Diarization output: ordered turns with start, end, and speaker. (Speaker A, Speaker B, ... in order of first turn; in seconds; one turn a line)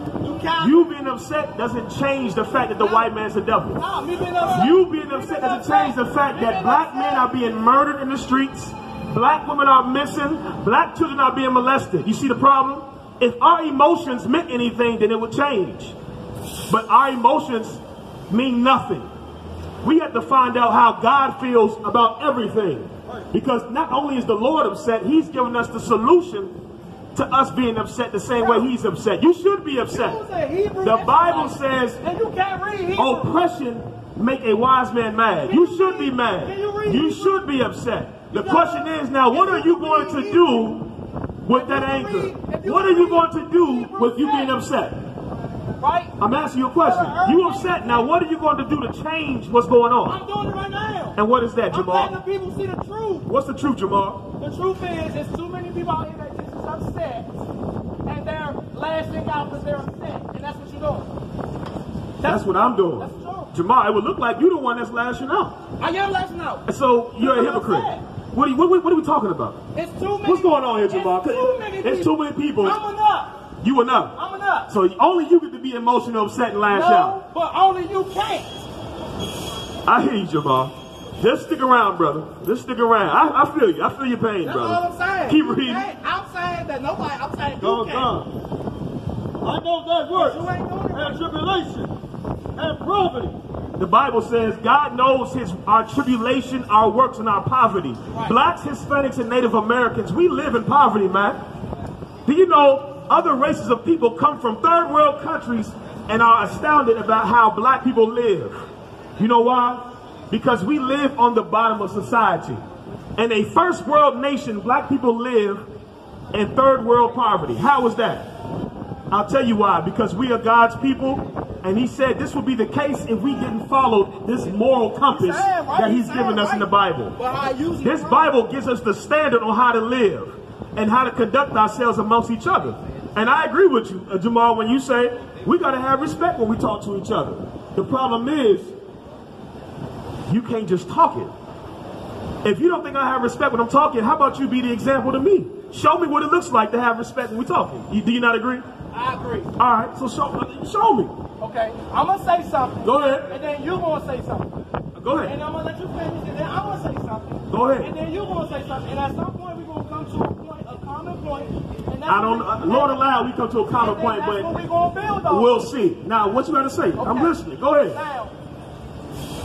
Speaker A: 0.2-1.1
Speaker B: 0.6-3.8
Speaker A: 2.8-3.1
Speaker A: 3.7-7.3
Speaker B: 4.4-15.9
Speaker B: 16.7-19.1
Speaker B: 19.8-26.6
Speaker B: 27.1-30.2
Speaker A: 28.4-28.7
Speaker A: 29.9-33.3
Speaker B: 30.8-32.0
Speaker B: 32.9-45.0
Speaker A: 35.4-37.5
Speaker A: 38.3-40.8
Speaker A: 41.5-44.5
Speaker A: 45.8-46.1
Speaker B: 46.2-50.2
Speaker A: 46.8-48.1
Speaker A: 50.1-53.3
Speaker B: 51.1-52.1
Speaker B: 53.2-54.2
Speaker A: 54.4-57.3
Speaker A: 58.0-61.2
Speaker A: 62.2-63.5
Speaker B: 62.2-65.6
Speaker A: 65.8-66.6
Speaker B: 66.7-69.6
Speaker A: 67.2-68.0
Speaker A: 69.7-73.4
Speaker B: 70.2-72.8
Speaker B: 73.6-74.1
Speaker A: 74.1-74.7
Speaker B: 74.7-77.2
Speaker A: 76.7-78.6
Speaker B: 79.8-85.9
Speaker A: 84.4-88.2
Speaker C: 87.6-88.3
Speaker C: 89.4-91.9
Speaker A: 90.1-91.2
Speaker C: 92.5-93.4
Speaker B: 93.8-101.4
Speaker A: 98.1-98.4
Speaker B: 102.2-112.6
Speaker B: 113.2-115.7
Speaker B: 116.3-118.3
Speaker B: 119.1-127.2
Speaker A: 125.1-128.3
Speaker B: 127.8-138.7
Speaker B: 140.3-141.3
Speaker B: 142.4-148.7
Speaker A: 148.9-149.5
Speaker B: 149.6-151.1
Speaker A: 151.4-154.6
Speaker B: 152.8-153.3
Speaker B: 154.9-155.4
Speaker A: 155.2-163.0
Speaker B: 157.5-157.9
Speaker B: 162.1-164.6
Speaker A: 163.7-165.6
Speaker B: 165.3-168.0
Speaker A: 166.9-168.3